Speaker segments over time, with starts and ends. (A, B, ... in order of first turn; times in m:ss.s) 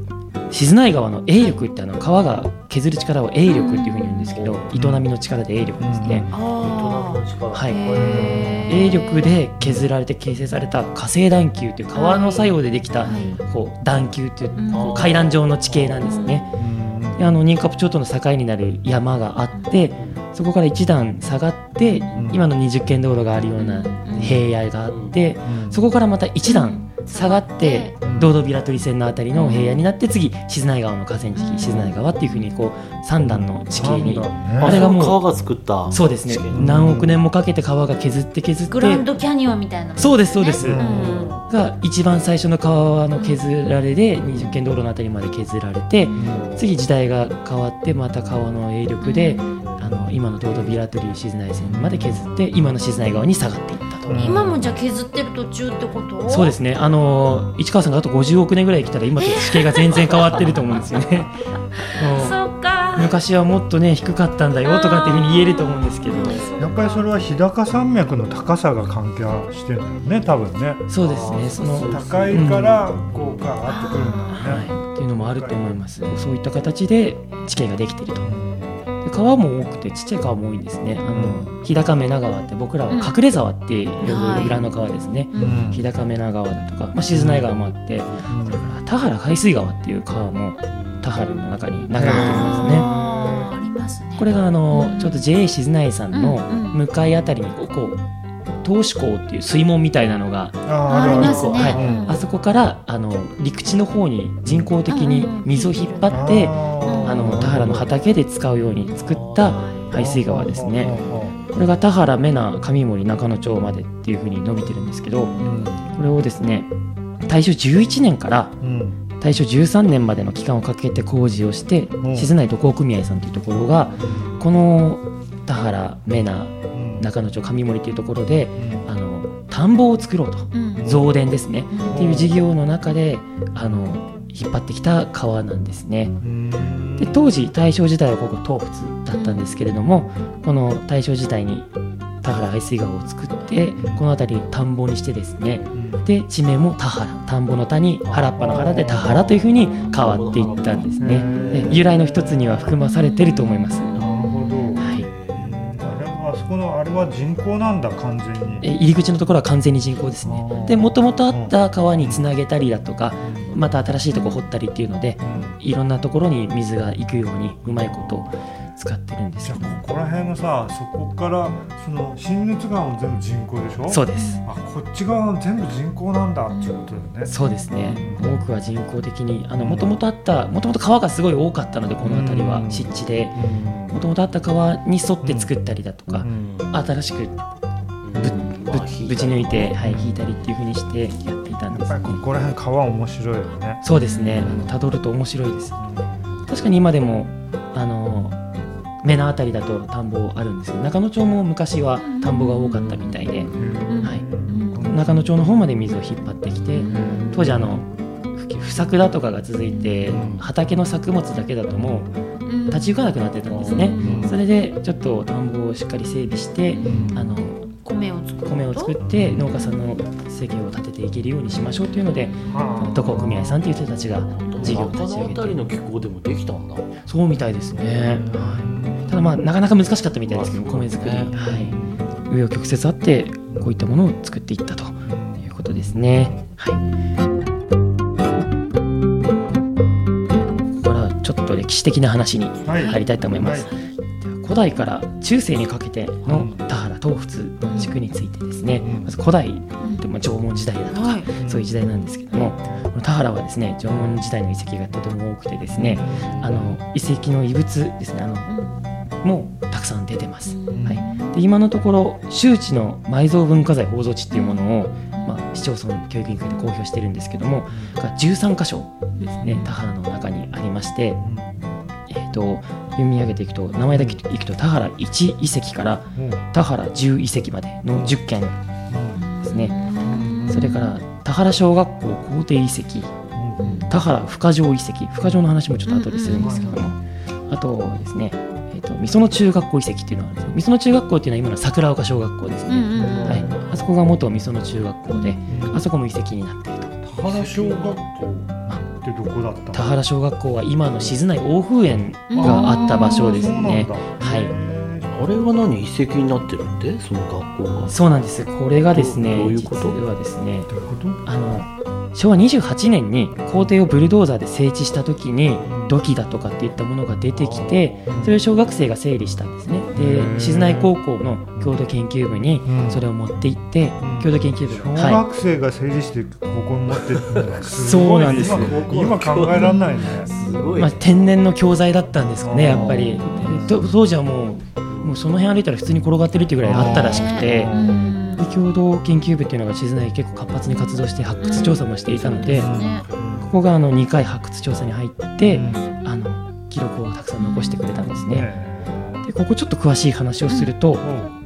0:00.5-0:06.3 A
0:03.5-0:04.4 B
0:04.3-0:04.6 C
0:04.7-0:05.0 D
0:05.8-0:06.3 D
0:06.1-0:09.3 B
0:06.4-0:08.7 C
0:07.5-0:16.5 A
0:08.3-0:08.5 D
0:09.6-0:09.9 D
0:11.9-0:13.4 B
0:14.6-0:15.1 B
0:14.7-0:15.5 C
0:16.0-0:16.4 B
0:16.5-0:17.3 D
0:17.2-0:35.2 A
0:19.5-0:19.8 B
0:19.9-0:20.2 C
0:22.1-0:22.4 D
0:23.6-0:24.4 B
0:24.9-0:25.2 C
0:25.4-0:25.9 D
0:26.4-0:27.9 B
0:28.0-0:28.3 D
0:29.3-0:29.8 B
0:31.3-0:32.0 B
0:33.2-0:34.8 D
0:34.6-0:37.0 C
0:35.9-0:39.0 A
0:36.5-0:37.2 D
0:38.7-0:41.4 B
0:40.0-0:54.1 A
0:40.6-0:41.2 D
0:40.8-0:41.5 C
0:43.2-0:43.4 B
0:46.0-0:46.3 B
0:46.2-0:46.6 D
0:49.0-0:49.6 B
0:51.6-0:52.3 D
0:54.0-0:54.7 D
0:54.2-0:56.5 B
0:56.3-1:01.4 A
0:59.2-1:00.9 B
1:01.8-1:03.2 B
1:02.0-1:02.4 A
1:02.9-1:06.4 A
1:04.6-1:07.1 B
1:06.6-1:10.9 D
1:10.9-1:12.9 A
1:11.0-1:13.5 C
1:11.5-1:15.6 D
1:13.6-1:14.6 B
1:14.3-1:18.3 A
1:18.2-1:18.8 D
1:19.0-1:32.9 A
1:21.1-1:21.6 D
1:22.9-1:23.2 B
1:24.0-1:24.6 B
1:25.3-1:25.7 B
1:25.4-1:25.8 D
1:27.1-1:27.5 D
1:28.3-1:28.7 D
1:30.7-1:31.3 C
1:31.9-1:33.4 D
1:32.0-1:35.2 B
1:34.2-1:38.0 A
1:36.1-1:36.8 B
1:38.6-1:50.9 A
1:40.6-1:42.2 D
1:40.8-1:42.2 B
1:41.1-1:41.8 C
1:44.4-1:44.7 D
1:44.9-1:47.4 B
1:46.1-1:47.9 D
1:48.9-1:49.9 C
1:49.9-1:51.4 D
1:51.5-1:55.3 A
1:55.4-1:55.9 D
1:55.9-1:56.7 A
1:57.3-1:58.6 A
1:58.6-1:59.0 D
1:59.2-2:16.2 A
2:02.0-2:02.3 D
2:04.0-2:04.4 D
2:06.7-2:07.1 D
2:08.6-2:08.8 D
2:10.5-2:10.9 B
2:10.8-2:11.2 D
2:11.7-2:12.0 B
2:11.9-2:12.4 D
2:16.2-2:17.3 D
2:17.0-2:21.7 A
2:19.1-2:19.5 B
2:22.2-2:34.0 A
2:25.7-2:26.0 D
2:28.0-2:31.8 C
2:28.4-2:29.3 D
2:31.0-2:32.6 D
2:32.8-2:35.0 B
2:34.0-2:38.7 D
2:34.8-2:35.1 A
2:34.8-2:35.6 C
2:38.6-2:49.8 A
2:40.2-2:42.3 D
2:43.2-2:43.6 D
2:44.1-2:44.4 B
2:45.2-2:45.6 D
2:47.6-2:48.3 D
2:49.4-2:57.3 D
2:53.9-2:54.4 A
2:54.1-2:54.4 B
2:56.5-2:56.9 B
2:57.2-3:07.4 A
2:57.8-2:58.4 D
2:59.6-2:59.9 D
3:02.0-3:04.0 D
3:05.2-3:05.5 D
3:06.3-3:06.7 C
3:08.0-3:09.8 C
3:08.2-3:12.2 A
3:09.8-3:10.2 D
3:11.7-3:13.8 D
3:13.8-3:15.8 A
3:13.9-3:14.6 B
3:14.4-3:14.7 D
3:14.4-3:14.7 C
3:15.8-3:16.0 D
3:16.5-3:18.4 A
3:19.0-3:23.5 A
3:22.0-3:23.1 B
3:23.5-3:25.3 D
3:23.9-3:24.9 B
3:24.8-3:32.1 A
3:26.7-3:27.3 B
3:26.9-3:27.8 D
3:30.1-3:30.4 D
3:30.1-3:30.4 C
3:32.4-3:32.9 B
3:32.7-3:37.7 A
3:33.5-3:34.4 D
3:33.6-3:34.3 B
3:33.6-3:34.3 C
3:36.7-3:37.2 B
3:36.8-3:37.2 D
3:37.8-3:39.0 B
3:38.4-3:45.7 A
3:39.1-3:39.4 D
3:42.5-3:43.7 D
3:44.4-3:44.8 B
3:44.5-3:46.9 C
3:47.0-3:51.8 A
3:48.3-3:49.3 D
3:50.2-3:51.4 C
3:51.3-3:52.0 D
3:52.3-3:56.8 A
3:55.0-3:56.4 D
4:00.7-4:18.5 A
4:02.6-4:03.7 D
4:02.7-4:03.0 B
4:06.2-4:06.6 D
4:07.6-4:07.9 B
4:08.8-4:09.1 D
4:09.8-4:10.0 B
4:10.9-4:11.3 B
4:11.4-4:11.7 D
4:15.7-4:16.8 D
4:16.1-4:16.4 C
4:18.5-4:18.7 B
4:19.2-4:31.2 A
4:20.5-4:21.4 B
4:20.7-4:21.0 D
4:24.3-4:25.4 B
4:29.2-4:29.7 B
4:31.2-4:31.6 D
4:32.1-4:38.5 A
4:33.9-4:34.2 D
4:36.2-4:36.4 D
4:38.9-4:39.2 D
4:39.1-4:40.9 B
4:39.4-4:39.8 A
4:40.0-4:40.6 D
4:40.4-4:43.1 A
4:43.3-4:43.9 D
4:43.6-4:43.9 B
4:43.9-4:47.0 A
4:45.9-4:46.8 B
4:46.3-4:46.9 D
4:47.5-4:57.0 A
4:52.7-4:53.5 B
4:53.0-4:53.9 D
4:53.2-4:53.6 C
4:55.1-4:55.4 B
4:55.5-4:55.8 D
4:57.0-4:59.9 D
4:57.2-4:58.2 C
4:59.7-5:04.5 A
5:02.3-5:03.5 B
5:02.3-5:05.2 D
5:05.1-5:07.9 C
5:07.9-5:10.7 A
5:08.9-5:10.0 C
5:10.7-5:11.2 D
5:11.2-5:25.2 A
5:15.7-5:15.9 D
5:17.3-5:18.1 C
5:18.1-5:18.4 D
5:19.9-5:20.9 D
5:22.6-5:23.0 D
5:24.0-5:30.3 D
5:27.0-5:27.6 C
5:27.7-5:28.8 A
5:28.2-5:31.0 C
5:29.5-5:30.7 B
5:30.8-5:37.8 A
5:32.4-5:33.8 D
5:32.7-5:33.0 C
5:32.9-5:33.6 B
5:34.9-5:35.1 C
5:36.6-5:38.0 D
5:36.8-5:38.5 B
5:38.4-5:42.7 A
5:41.2-5:43.5 C
5:41.4-5:43.1 B
5:42.4-5:43.5 D
5:43.4-5:48.5 A
5:45.4-5:45.8 D
5:45.6-5:45.9 B
5:47.4-5:48.2 B
5:48.2-5:49.2 D
5:49.2-5:51.0 A
5:50.5-5:50.7 B
5:51.0-5:51.3 D